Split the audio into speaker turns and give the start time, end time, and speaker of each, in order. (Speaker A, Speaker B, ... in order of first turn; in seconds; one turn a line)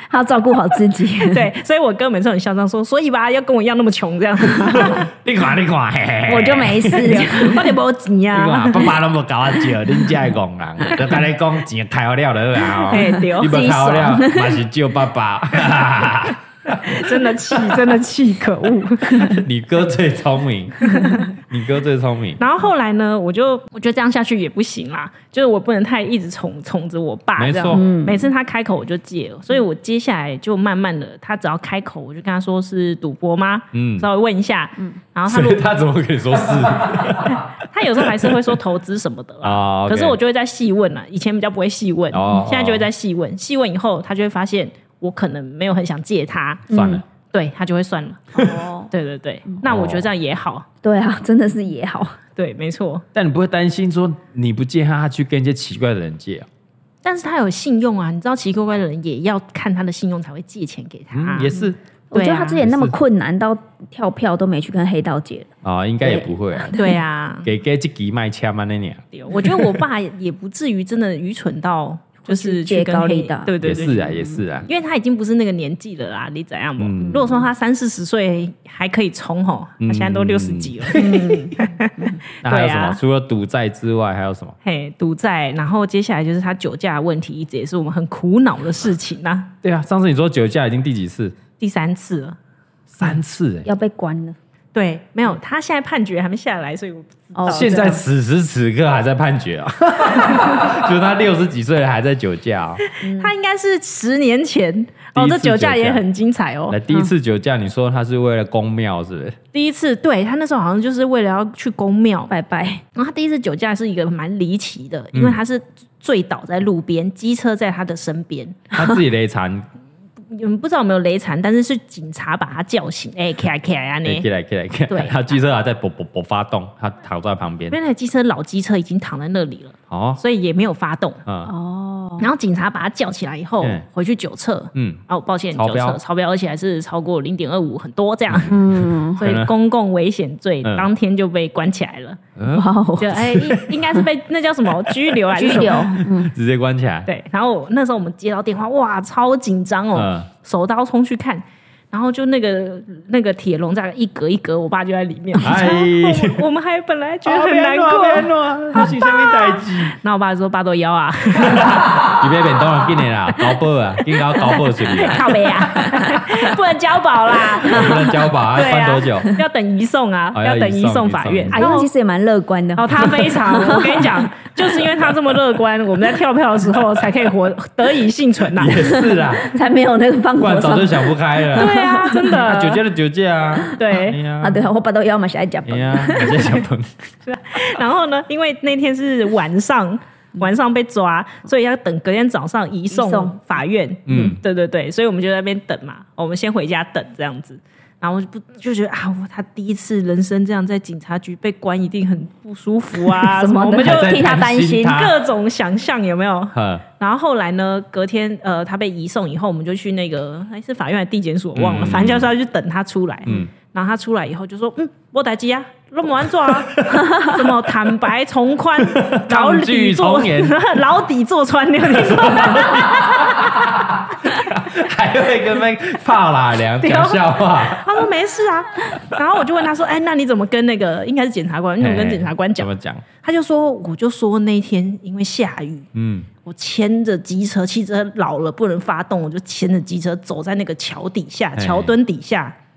Speaker A: 0.1-1.5
Speaker B: 1.2-5.1
Speaker C: 4.6-7.3
Speaker A: 6.2-7.7
Speaker B: 6.9-8.9
Speaker C: 8.3-17.9
Speaker A: 12.8-14.6
Speaker B: 12.9-13.8
Speaker B: 16.7-19.4
Speaker C: 19.2-22.4
Speaker B: 20.8-21.3
Speaker B: 22.4-35.6
Speaker C: 27.4-27.8
Speaker A: 27.7-28.3
Speaker C: 33.7-34.1
Speaker C: 35.3-38.5
Speaker B: 37.0-46.6
Speaker C: 39.4-40.1
Speaker C: 42.1-42.9
Speaker A: 46.7-47.0
Speaker C: 46.7-47.0
Speaker B: 47.3-50.6
Speaker A: 48.4-48.9
Speaker C: 49.6-50.1
Speaker A: 50.8-52.2
Speaker B: 52.4-53.0
Speaker C: 53.1-56.5
Speaker B: 57.0-61.5
Speaker C: 61.1-61.8
Speaker A: 62.1-65.5
Speaker B: 62.1-62.6
Speaker C: 62.6-63.0
Speaker C: 65.6-66.7
Speaker A: 66.0-67.0
Speaker B: 66.7-67.5
Speaker C: 67.4-69.8
Speaker B: 69.1-74.1
Speaker A: 72.3-73.8
Speaker C: 73.6-74.7
Speaker B: 74.6-83.0
Speaker C: 76.8-77.3
Speaker C: 79.8-81.2
Speaker A: 80.9-82.2
Speaker C: 82.4-84.5
Speaker B: 84.6-89.5
Speaker C: 89.6-91.4
Speaker B: 91.6-92.4
Speaker C: 92.9-93.7
Speaker A: 93.6-94.4
Speaker B: 94.7-98.0
Speaker A: 97.4-97.9
Speaker C: 97.5-102.8
Speaker B: 102.8-106.8
Speaker A: 103.0-103.3
Speaker C: 105.1-106.0
Speaker C: 106.7-109.4
Speaker B: 109.5-112.3
Speaker A: 112.3-112.8
Speaker B: 112.9-118.6
Speaker C: 115.1-115.4
Speaker C: 118.7-119.7
Speaker B: 120.3-124.2
Speaker C: 124.0-127.8
Speaker B: 124.9-125.3
Speaker B: 127.7-131.2
Speaker C: 129.9-130.2
Speaker C: 131.2-131.5
Speaker A: 131.4-132.3
Speaker B: 132.2-138.6
Speaker C: 134.7-135.0
Speaker C: 135.5-136.0
Speaker A: 138.5-139.2
Speaker C: 139.2-139.5
Speaker B: 139.2-142.2
Speaker C: 142.4-143.9
Speaker A: 142.5-143.3
Speaker B: 143.0-145.8
Speaker C: 144.8-147.1
Speaker A: 145.3-146.3
Speaker B: 147.1-162.2
Speaker C: 149.9-150.3
Speaker C: 155.4-156.4
Speaker C: 157.2-159.9
Speaker C: 161.4-165.8
Speaker B: 164.9-171.9
Speaker C: 167.6-169.3
Speaker C: 170.3-171.7
Speaker A: 171.5-174.2
Speaker B: 172.7-179.0
Speaker C: 178.6-179.5
Speaker A: 178.9-182.4
Speaker C: 180.4-184.7
Speaker B: 181.5-182.8
Speaker B: 183.7-184.2
Speaker A: 184.4-186.6
Speaker C: 185.7-186.9
Speaker B: 187.2-204.3
Speaker A: 192.9-193.3
Speaker C: 194.1-194.4
Speaker A: 194.1-194.4
Speaker A: 203.1-205.1
Speaker C: 203.8-205.2
Speaker B: 204.9-223.8
Speaker C: 206.5-206.8
Speaker C: 211.5-212.3
Speaker C: 213.2-213.5
Speaker C: 216.6-217.1
Speaker C: 218.8-220.6
Speaker C: 221.8-228.0
Speaker B: 226.8-232.7
Speaker C: 231.8-233.0
Speaker B: 233.2-235.9
Speaker C: 235.9-236.3
Speaker B: 236.4-242.5
Speaker C: 241.6-241.9